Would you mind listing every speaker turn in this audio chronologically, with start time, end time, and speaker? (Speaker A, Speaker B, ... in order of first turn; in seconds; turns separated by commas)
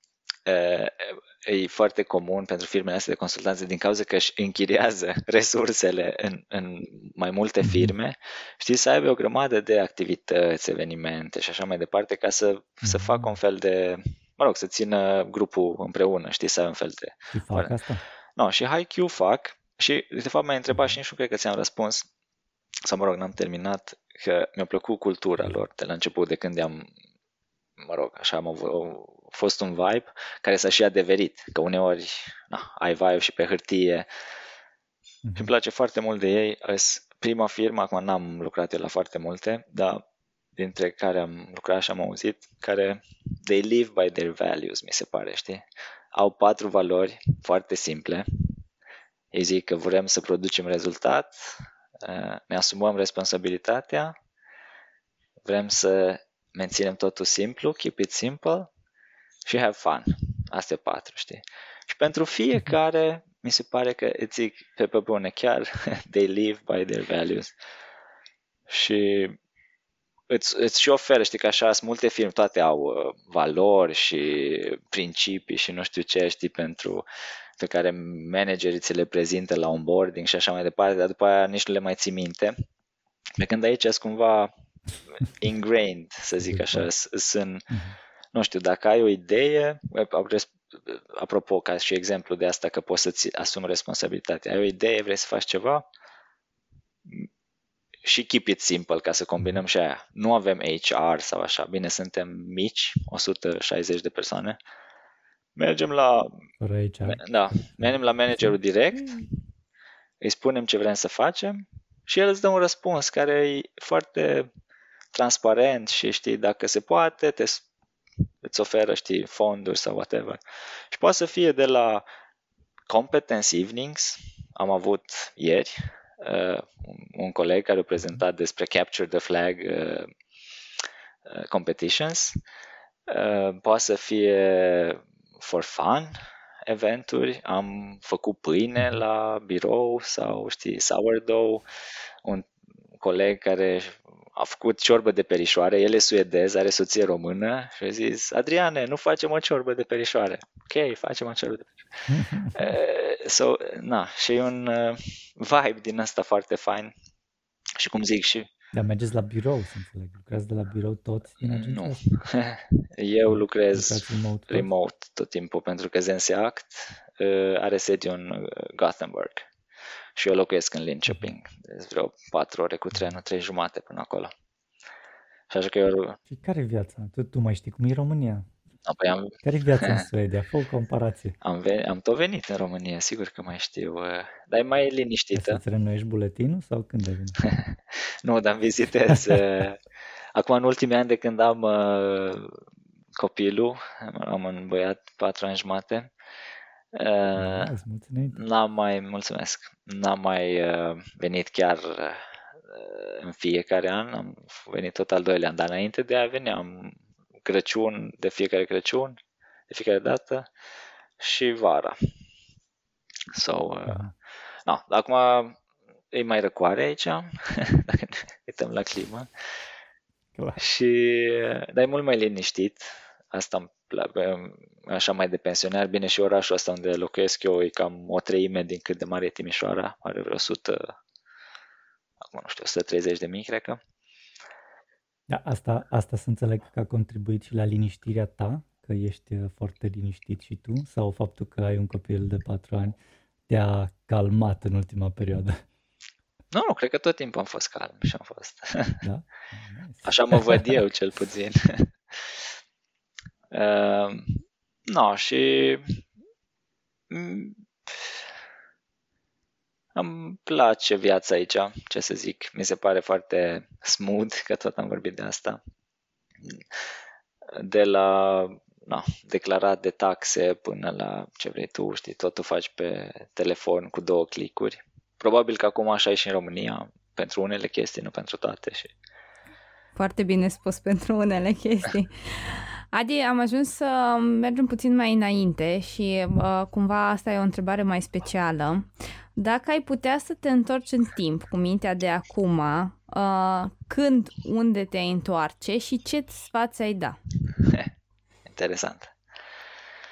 Speaker A: 0.5-17.8, Speaker B: 7.6-7.9, Speaker B: 12.8-13.3, Speaker B: 17.3-18.0, Speaker A: 18.4-22.1, Speaker A: 22.9-26.9, Speaker A: 27.8-34.1, Speaker B: 35.2-35.5, Speaker A: 35.4-40.0, Speaker A: 40.6-48.2, Speaker A: 49.3-54.1, Speaker A: 55.4-58.7, Speaker A: 59.5-67.5, Speaker A: 68.7-69.4, Speaker A: 70.3-77.0, Speaker A: 77.6-82.5, Speaker A: 83.4-84.5, Speaker A: 85.1-87.7, Speaker B: 86.4-86.9, Speaker A: 88.3-95.8, Speaker A: 98.0-104.6, Speaker A: 105.5-106.4, Speaker B: 106.6-109.1, Speaker A: 107.1-109.3, Speaker A: 110.2-114.5, Speaker A: 115.1-117.6, Speaker A: 118.4-120.4, Speaker A: 120.9-122.0, Speaker A: 122.9-130.1, Speaker A: 131.3-132.3, Speaker A: 133.1-136.1, Speaker A: 136.7-141.6, Speaker A: 143.0-152.0, Speaker B: 152.1-152.8, Speaker A: 152.5-156.9, Speaker A: 157.8-158.5, Speaker B: 158.7-162.0, Speaker A: 161.4-169.5, Speaker B: 163.3-164.7, Speaker A: 170.2-174.3, Speaker A: 175.5-176.2, Speaker B: 176.3-178.5, Speaker A: 178.8-180.1, Speaker B: 179.4-181.3, Speaker A: 181.4-185.6, Speaker B: 185.3-187.4, Speaker A: 187.4-189.8, Speaker A: 190.3-192.6, Speaker A: 193.2-196.1, Speaker A: 196.9-197.7, Speaker B: 197.4-198.4, Speaker A: 198.3-209.2, Speaker A: 209.7-210.5, Speaker A: 211.2-212.0, Speaker A: 213.3-214.1, Speaker A: 214.7-215.6, Speaker A: 216.1-219.3, Speaker B: 220.3-220.6, Speaker A: 220.6-230.9, Speaker A: 232.3-233.8, Speaker B: 235.3-243.0, Speaker B: 243.5-245.6, Speaker A: 246.5-249.0, Speaker B: 249.0-250.8, Speaker A: 250.0-252.3, Speaker A: 253.5-256.0, Speaker A: 257.1-258.2, Speaker A: 259.9-265.6, Speaker A: 267.5-278.9, Speaker C: 279.9-297.2, Speaker A: 297.6-297.9, Speaker A: 298.5-299.1